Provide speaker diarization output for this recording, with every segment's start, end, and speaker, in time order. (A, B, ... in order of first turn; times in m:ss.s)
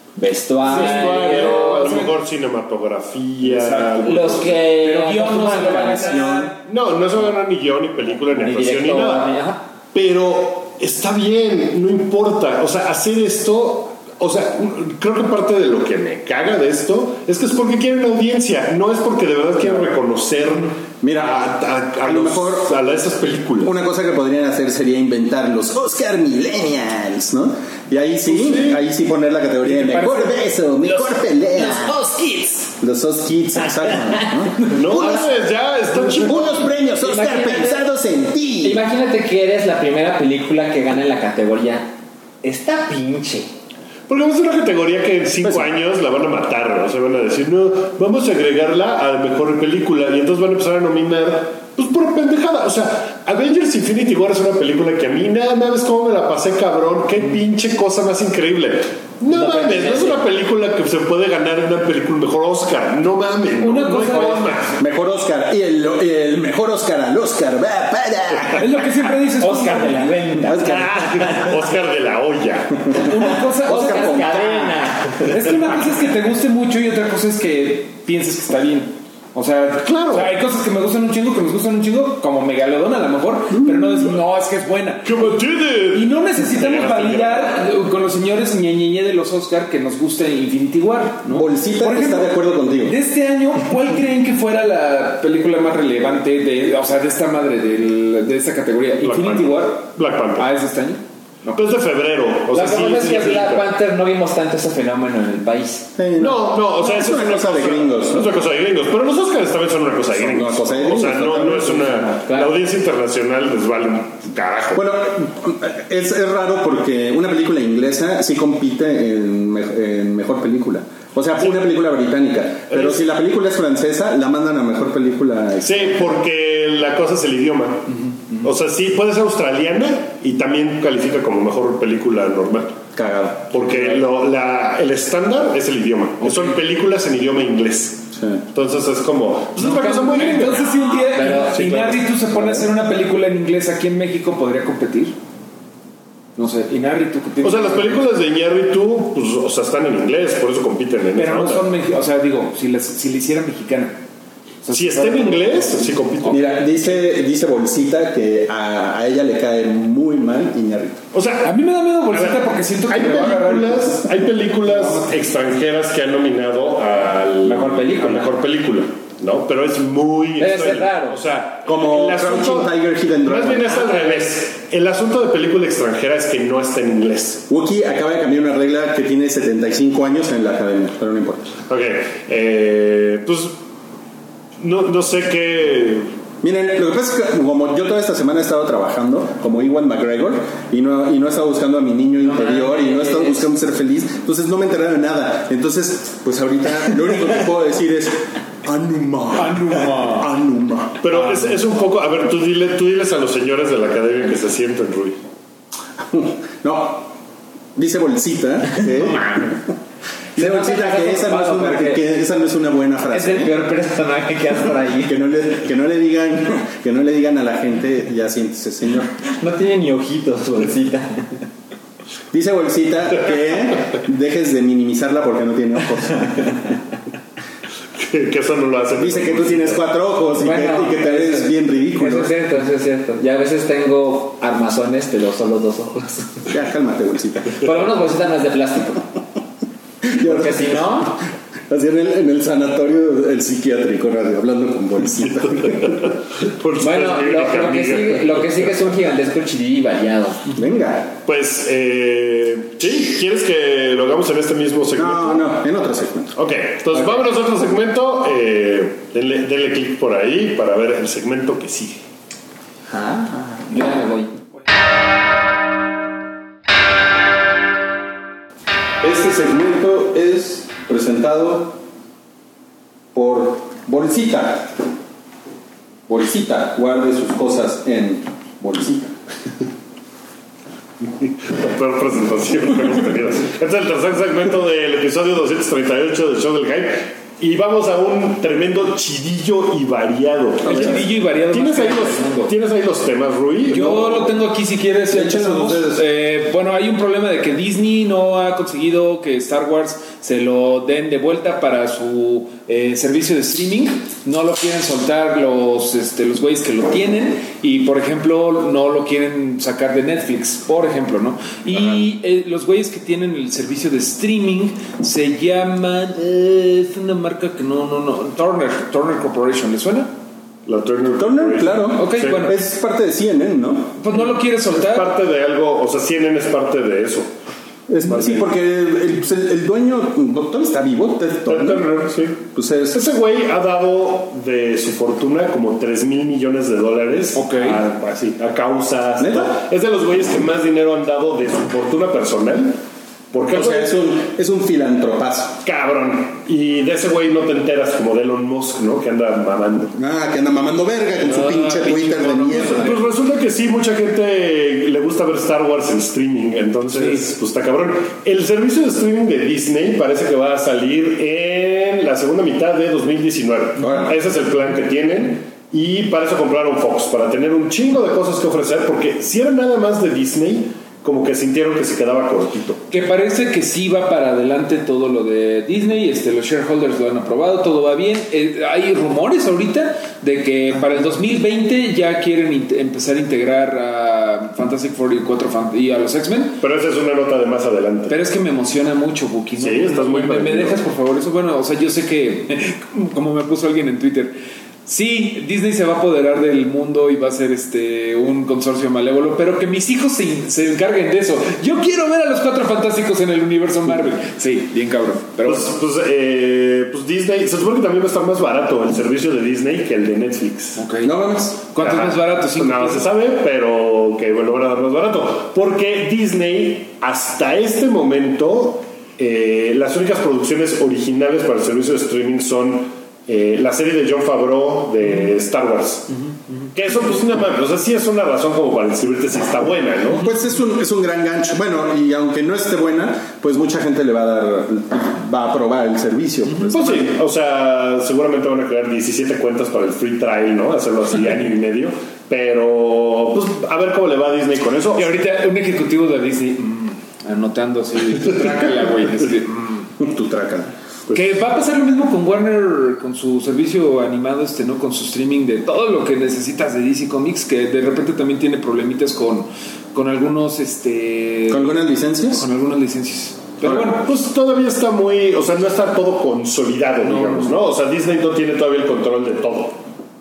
0:00.2-0:02.0 A
0:00.6-0:04.6 B
0:00.6-0:02.1 C
0:03.4-0:06.6 C
0:04.0-0:06.4 A
0:06.0-0:06.5 D
0:06.6-0:09.3 B
0:08.4-0:09.6 A
0:09.9-0:23.7 B
0:21.0-0:21.5 D
0:22.0-0:22.8 D
0:23.6-0:32.0 D
0:28.2-0:28.8 B
0:29.6-0:30.2 C
0:30.8-0:32.7 A
0:32.8-0:35.3 D
0:33.8-0:35.2 A
0:34.7-0:36.7 B
0:36.0-0:38.8 D
0:36.9-0:37.8 A
0:38.6-0:43.5 A
0:44.1-1:04.7 B
0:59.3-1:00.2 A
1:03.6-1:04.7 C
1:04.0-1:08.8 D
1:08.6-1:10.1 C
1:09.4-1:11.5 A
1:10.4-1:10.9 D
1:10.5-1:13.0 B
1:13.0-1:14.2 C
1:13.0-1:15.4 A
1:13.0-1:15.0 D
1:15.2-1:25.4 C
1:19.8-1:20.3 B
1:23.5-1:24.2 D
1:25.0-1:27.6 B
1:25.9-1:41.6 C
1:31.3-1:33.0 D
1:39.0-1:40.5 B
1:41.5-1:43.7 B
1:42.5-1:45.9 A
1:46.0-1:48.4 D
1:46.2-1:54.8 B
1:50.1-1:52.2 D
1:52.2-1:52.5 A
1:54.7-2:06.0 D
2:02.7-2:03.0 B
2:05.6-2:07.9 B
2:08.4-2:12.8 B
2:12.9-2:14.0 D
2:13.5-2:20.7 B
2:16.2-2:16.6 C
2:18.1-2:18.4 D
2:19.6-2:25.1 C
2:20.6-2:21.7 A
2:21.5-2:21.9 B
2:22.3-2:22.7 D
2:26.4-2:28.0 C
2:27.4-2:31.6 B
2:31.1-2:34.0 C
2:34.6-2:36.9 C
2:34.7-2:36.5 B
2:36.2-2:41.0 D
2:41.1-2:41.5 B
2:41.4-2:44.1 C
2:42.1-2:57.4 B
2:44.6-2:45.1 C
2:47.4-2:48.4 A
2:50.4-2:51.2 A
2:51.6-2:53.8 D
2:53.7-2:54.2 A
2:57.5-3:01.6 D
3:01.7-3:03.5 B
3:04.6-3:06.1 B
3:06.4-3:21.1 D
3:12.2-3:13.4 A
3:19.3-3:20.3 C
3:21.0-3:25.2 B
3:26.0-3:27.1 D
3:27.8-3:29.6 D
3:28.8-3:29.5 A
3:30.4-3:32.0 A
3:30.4-3:33.5 D
3:33.1-3:35.2 A
3:35.0-3:39.2 D
3:39.3-3:41.4 A
3:42.3-3:46.6 D
3:47.9-3:49.8 B
3:49.0-3:52.3 D
3:50.4-3:56.5 A
3:56.5-3:57.8 D
3:57.5-3:59.1 A
4:00.1-4:01.1 D
4:00.2-4:01.2 A
4:01.7-4:06.1 D
4:05.2-4:08.7 B
4:06.8-4:10.4 A
4:10.5-4:11.1 D
4:11.2-4:15.5 B
4:14.9-4:16.3 D
4:16.4-4:22.0 B
4:22.9-4:23.8 D
4:23.7-4:24.3 A
4:29.0-4:31.8 D
4:33.1-4:34.8 D
4:36.1-4:39.2 D
4:41.0-4:54.0 B
4:50.6-4:52.5 C
4:50.6-4:51.0 D
4:53.7-5:20.1 C
4:53.7-4:54.3 D
4:55.1-4:56.0 D
5:20.6-5:22.5 B
5:21.2-5:24.0 D
5:21.9-5:22.6 C
5:24.0-5:25.1 C
5:24.7-5:27.3 B
5:27.9-5:31.8 D
5:28.0-5:28.5 B
5:31.4-5:42.8 B
5:32.4-5:33.0 D
5:37.3-5:37.8 C
5:39.2-5:39.6 D
5:43.3-5:43.9 B
5:43.4-5:45.6 D
5:45.6-5:50.0 B
5:50.0-5:53.0 D
5:51.2-5:53.0 C
5:52.5-6:12.8 B
5:56.9-5:57.2 C
6:03.8-6:04.1 D
6:12.9-6:26.6 C
6:26.6-6:28.2 B
6:28.1-6:45.7 C
6:29.6-6:30.8 B
6:45.4-6:50.8 B
6:50.8-6:51.1 C
6:51.0-6:51.6 D
6:51.7-6:53.0 C
6:51.8-7:06.2 B
7:06.7-7:10.3 B
7:10.2-7:17.1 D
7:16.6-7:25.1 B
7:24.9-7:29.9 C
7:30.0-7:30.7 D
7:31.1-7:44.1 C
7:41.5-7:42.4 D
7:43.6-7:49.8 B
7:47.0-7:47.6 C